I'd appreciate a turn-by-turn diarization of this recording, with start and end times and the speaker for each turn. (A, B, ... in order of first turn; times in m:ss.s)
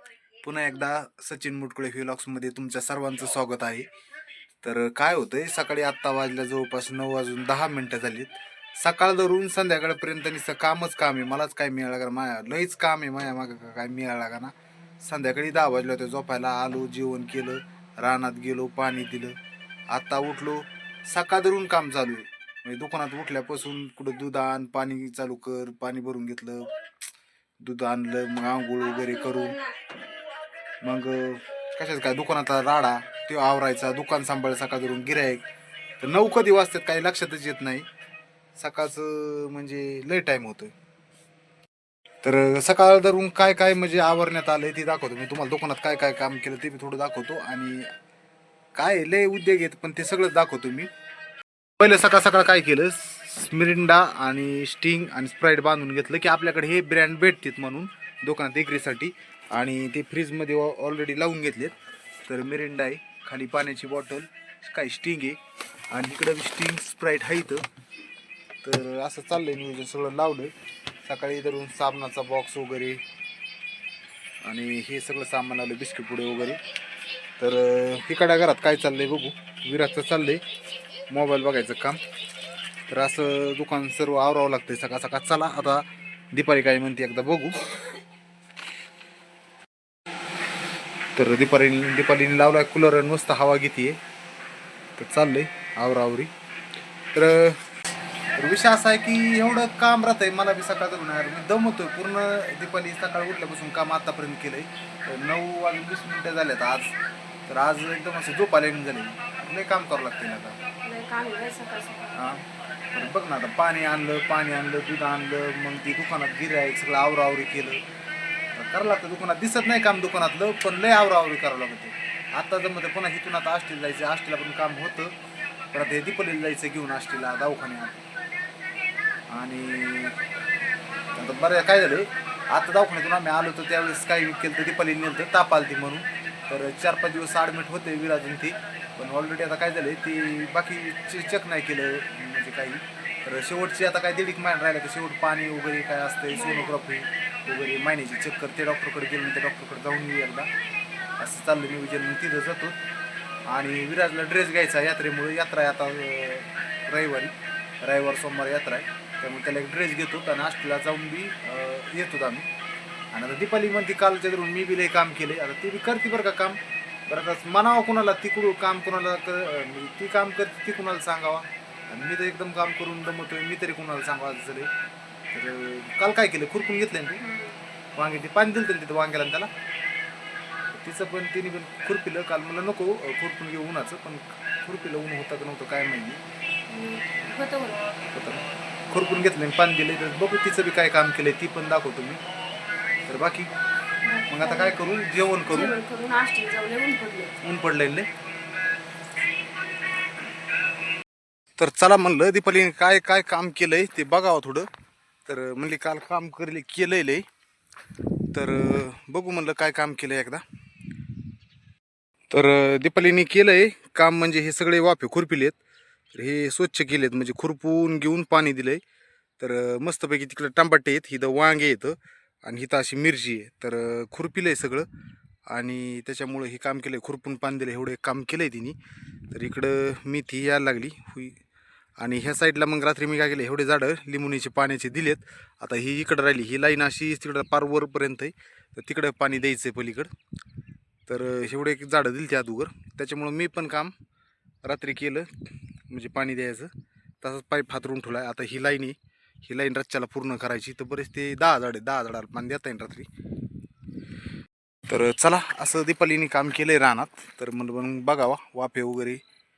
0:00.4-0:03.9 A
0:04.6-0:19.3 A
0:19.9-0:26.7 A
0:27.6-0:29.6 A
0:30.8-0:35.4 A
0:36.0-0:37.8 A
0:38.6-0:40.7 A
0:42.2-0:47.9 A
0:48.8-0:50.9 A
0:51.8-1:01.7 A
1:02.2-1:05.4 A
1:05.9-1:07.6 A
1:08.6-1:10.5 A
1:11.0-1:13.0 A
1:14.4-1:16.6 A
1:17.4-1:20.4 A
1:21.1-1:22.0 A
1:22.9-1:27.5 A
1:31.1-1:34.0 A
1:35.0-1:36.3 A
1:37.1-1:37.6 A
1:38.4-1:46.9 A
1:47.4-1:50.6 A
1:50.8-1:52.3 B
1:52.1-1:57.8 A
1:58.5-2:05.1 A
2:05.7-2:08.0 A
2:09.3-2:10.2 A
2:11.1-2:30.5 A
2:26.3-2:26.8 B
2:31.2-2:32.8 A
2:33.5-2:42.5 A
2:43.1-2:54.7 A
2:55.3-2:57.2 A
2:57.2-2:57.6 B
2:58.0-2:59.5 A
3:00.7-3:06.2 A
3:06.7-3:07.9 B
3:08.1-3:12.2 A
3:13.1-3:13.5 A
3:14.0-3:14.8 B
3:14.3-3:15.7 A
3:15.5-3:17.3 B
3:17.4-3:18.1 A
3:21.6-3:24.7 A
3:25.2-3:27.2 A
3:28.3-3:30.4 A
3:32.3-3:35.6 A
3:36.1-3:38.8 A
3:39.4-3:44.9 A
3:45.5-3:48.8 A
3:49.3-3:51.4 A
3:52.0-4:00.1 A
4:01.1-4:03.9 A
4:04.6-4:06.7 A
4:07.2-4:13.1 A
4:14.9-4:19.2 A